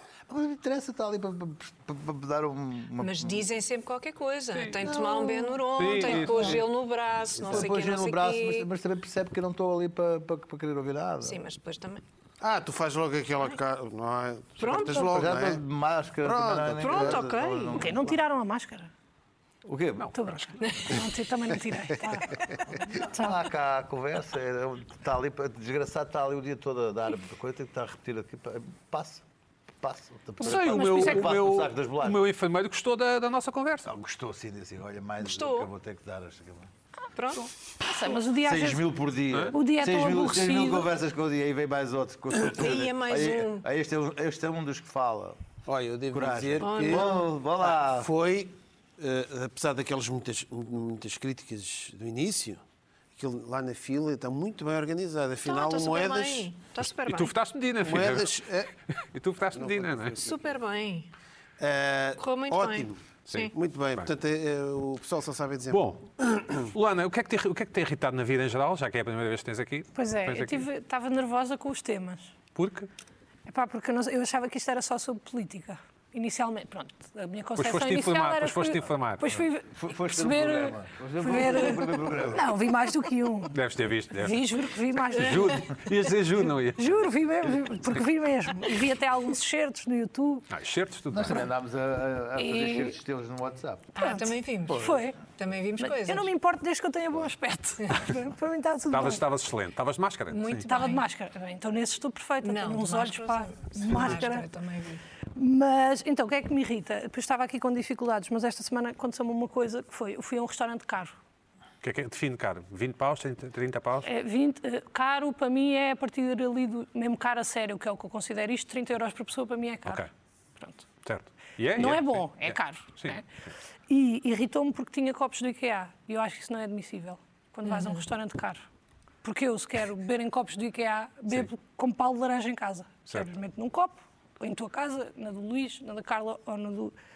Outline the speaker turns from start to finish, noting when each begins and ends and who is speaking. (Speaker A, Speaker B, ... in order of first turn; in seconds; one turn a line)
Speaker A: 0.3-3.5
Speaker B: 3.0-8.7
Speaker C: 4.5-4.9
Speaker C: 5.7-6.6
Speaker D: 6.1-6.5
Speaker D: 7.4-7.7
Speaker A: 7.4-11.4
Speaker B: 11.2-12.0
Speaker D: 12.4-15.6
Speaker B: 14.6-15.2
Speaker A: 14.9-18.2
Speaker D: 16.2-17.3
Speaker B: 16.8-17.9
Speaker E: 17.8-18.9
Speaker A: 19.6-20.2
Speaker C: 20.0-20.6
Speaker E: 20.1-23.4
Speaker B: 20.6-21.0
Speaker A: 22.9-29.2
Speaker A: 29.8-32.2
Speaker E: 30.4-31.3
Speaker C: 30.4-33.9
Speaker A: 33.9-36.7
Speaker B: 35.2-35.7
Speaker B: 37.1-37.5
Speaker E: 37.8-38.8
Speaker A: 38.0-45.4
Speaker E: 39.5-40.9
Speaker B: 42.5-43.7
Speaker D: 45.7-47.1
Speaker A: 46.1-48.1
Speaker B: 46.6-47.2
Speaker D: 47.6-52.6
Speaker D: 53.1-56.5
Speaker B: 55.4-57.3
Speaker C: 56.8-60.2
Speaker D: 57.8-58.7
Speaker D: 59.5-60.5
Speaker B: 60.2-61.1
Speaker D: 61.6-63.0
Speaker B: 62.2-63.5
Speaker C: 63.3-64.1
Speaker D: 63.5-65.8
Speaker C: 65.7-70.7
Speaker E: 70.0-72.3
Speaker C: 72.5-72.9
Speaker E: 73.5-83.6
Speaker C: 77.6-79.4
Speaker A: 79.7-82.6
Speaker C: 83.5-84.5
Speaker E: 84.2-85.8
Speaker C: 85.0-87.1
Speaker E: 86.8-90.5
Speaker C: 87.7-88.1
Speaker C: 90.5-91.5
Speaker A: 91.1-93.9
Speaker E: 92.4-93.0
Speaker B: 94.0-96.3
Speaker E: 94.0-95.2
Speaker E: 95.8-99.2
Speaker C: 98.9-100.7
Speaker B: 100.3-101.0
Speaker E: 100.7-104.5
Speaker B: 102.4-105.0
Speaker E: 105.3-111.2
Speaker C: 111.8-114.1
Speaker E: 114.0-120.0
Speaker E: 120.6-120.9
Speaker C: 121.0-123.2
Speaker E: 121.8-123.3
Speaker E: 123.9-128.6
Speaker B: 127.6-128.0
Speaker E: 129.2-136.9